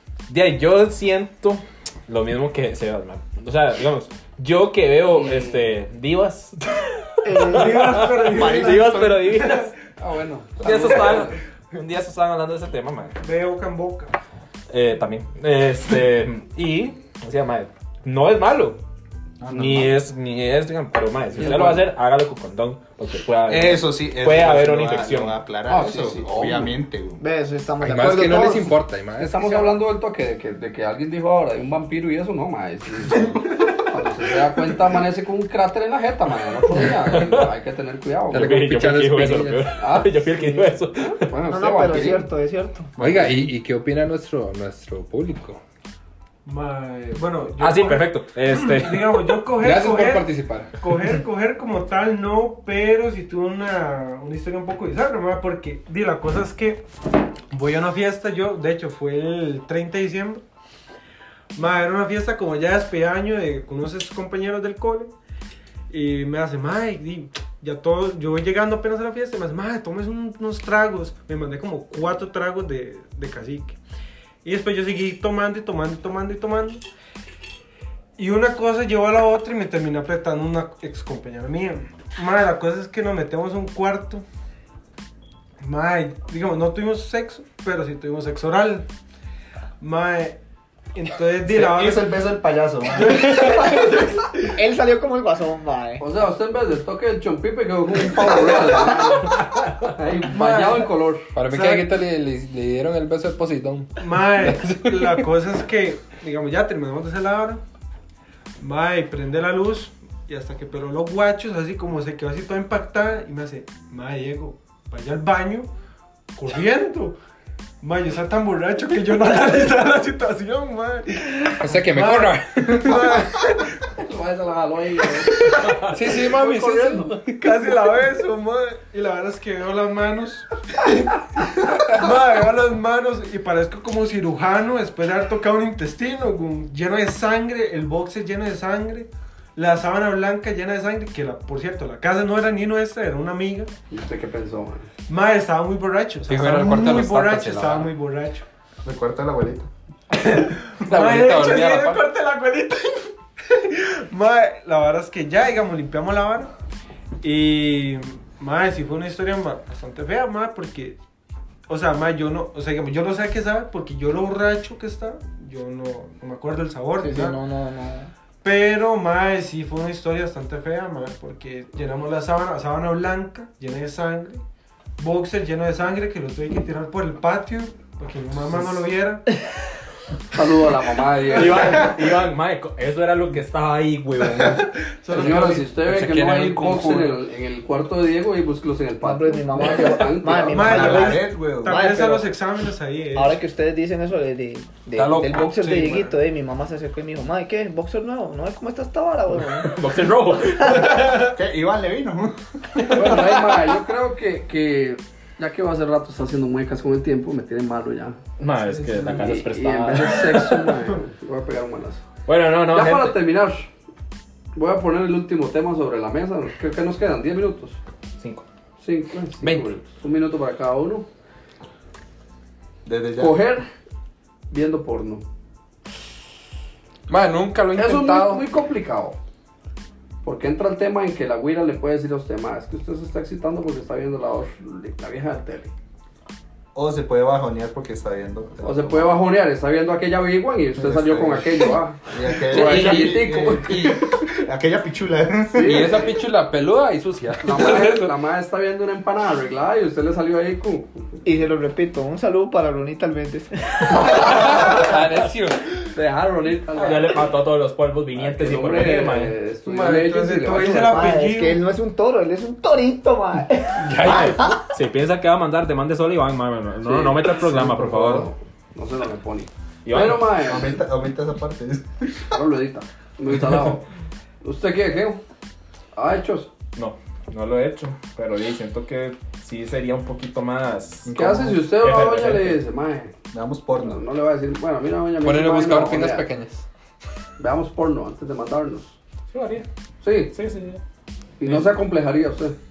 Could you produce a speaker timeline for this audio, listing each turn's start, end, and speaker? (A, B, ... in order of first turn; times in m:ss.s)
0:00.3-0:09.7 A
0:05.1-0:05.7 B
0:07.2-0:08.0 C
0:07.4-0:09.7 D
0:08.3-0:09.4 E
0:10.0-0:11.4 B
0:10.6-0:13.2 A
0:13.2-0:14.1 D
0:14.7-0:18.8 A
0:19.4-0:20.0 E
0:19.5-0:25.4 A
0:21.4-0:21.9 B
0:23.5-0:27.2 E
0:25.7-0:26.7 B
0:27.2-0:28.8 C
0:27.8-0:29.4 F
0:29.2-0:38.6 B
0:29.4-0:29.7 C
0:37.1-0:37.5 A
0:38.3-0:39.7 F
0:38.3-0:41.3 A
0:39.7-0:42.3 B
0:41.5-0:43.0 C
0:43.0-0:45.6 F
0:46.4-0:56.9 D
0:47.6-0:49.3 A
0:49.6-0:50.7 F
0:57.5-1:00.4 D
1:01.5-1:05.1 D
1:05.9-1:13.8 D
1:14.4-1:16.8 D
1:18.2-1:24.2 D
1:25.6-1:28.9 D
1:29.8-1:30.4 D
1:30.9-1:32.2 D
1:31.4-1:33.8 E
1:32.9-1:34.4 D
1:34.5-1:36.0 C
1:36.0-1:41.3 B
1:40.2-1:40.9 D
1:41.3-1:45.2 F
1:41.5-1:41.9 D
1:44.0-1:47.6 D
1:48.6-1:55.7 D
1:56.3-1:57.2 D
1:57.8-2:03.8 D
2:01.6-2:03.2 F
2:04.0-2:07.2 B
2:05.4-2:10.5 D
2:05.5-2:07.4 F
2:11.8-2:23.7 D
2:23.9-2:24.9 B
2:25.1-2:28.4 D
2:26.3-2:27.9 F
2:28.8-2:29.7 E
2:30.1-2:36.5 D
2:30.8-2:32.0 F
2:37.2-2:41.0 D
2:41.7-2:47.4 D
2:47.0-2:48.1 C
2:48.4-2:54.4 D
2:55.0-2:59.2 D
3:00.3-3:01.9 B
3:01.3-3:04.7 A
3:01.5-3:02.0 D
3:04.4-3:05.7 D
3:05.1-3:10.9 B
3:05.2-3:07.2 F
3:09.0-3:12.3 C
3:10.4-3:13.4 D
3:10.5-3:11.8 E
3:13.1-3:19.8 C
3:15.0-3:15.9 F
3:15.4-3:16.1 E
3:19.6-3:20.9 A
3:20.6-3:21.0 C
3:20.7-3:23.3 E
3:22.9-3:28.2 B
3:28.4-3:30.7 A
3:28.7-3:29.2 E
3:29.0-3:32.0 B
3:32.2-3:33.2 A
3:32.7-3:33.7 B
3:34.5-3:37.8 B
3:38.2-3:38.4 A
3:38.8-3:41.0 B
3:39.4-3:39.7 F
3:42.8-3:43.4 E
3:43.2-3:43.7 B
3:44.5-3:45.2 B
3:47.1-3:48.4 F
3:47.8-3:49.2 B
3:50.2-3:55.7 B
3:56.7-3:59.2 E
3:58.6-4:04.0 B
4:00.8-4:06.0 E
4:02.6-4:03.0 F
4:05.5-4:06.2 B
4:05.6-4:08.1 F
4:07.4-4:11.0 B
4:11.2-4:14.9 C
4:13.9-4:15.9 F
4:15.9-4:17.2 B
4:16.8-4:19.4 A
4:18.2-4:21.0 B
4:19.6-4:21.6 D
4:20.8-4:24.6 C
4:23.8-4:24.5 F
4:24.0-4:28.3 A
4:26.8-4:30.8 B
4:29.8-4:30.2 A
4:29.9-4:32.2 E
4:32.3-4:33.8 B
4:34.4-4:35.2 B
4:35.9-4:36.5 B
4:36.8-4:42.6 A
4:41.0-4:41.7 E
4:41.1-4:43.1 B
4:43.3-4:44.0 E
4:43.8-4:46.2 B
4:45.2-4:46.6 F
4:47.4-4:49.0 B
4:49.3-4:49.6 A
4:50.0-4:50.3 B
4:50.3-4:50.8 A
4:51.4-4:52.6 B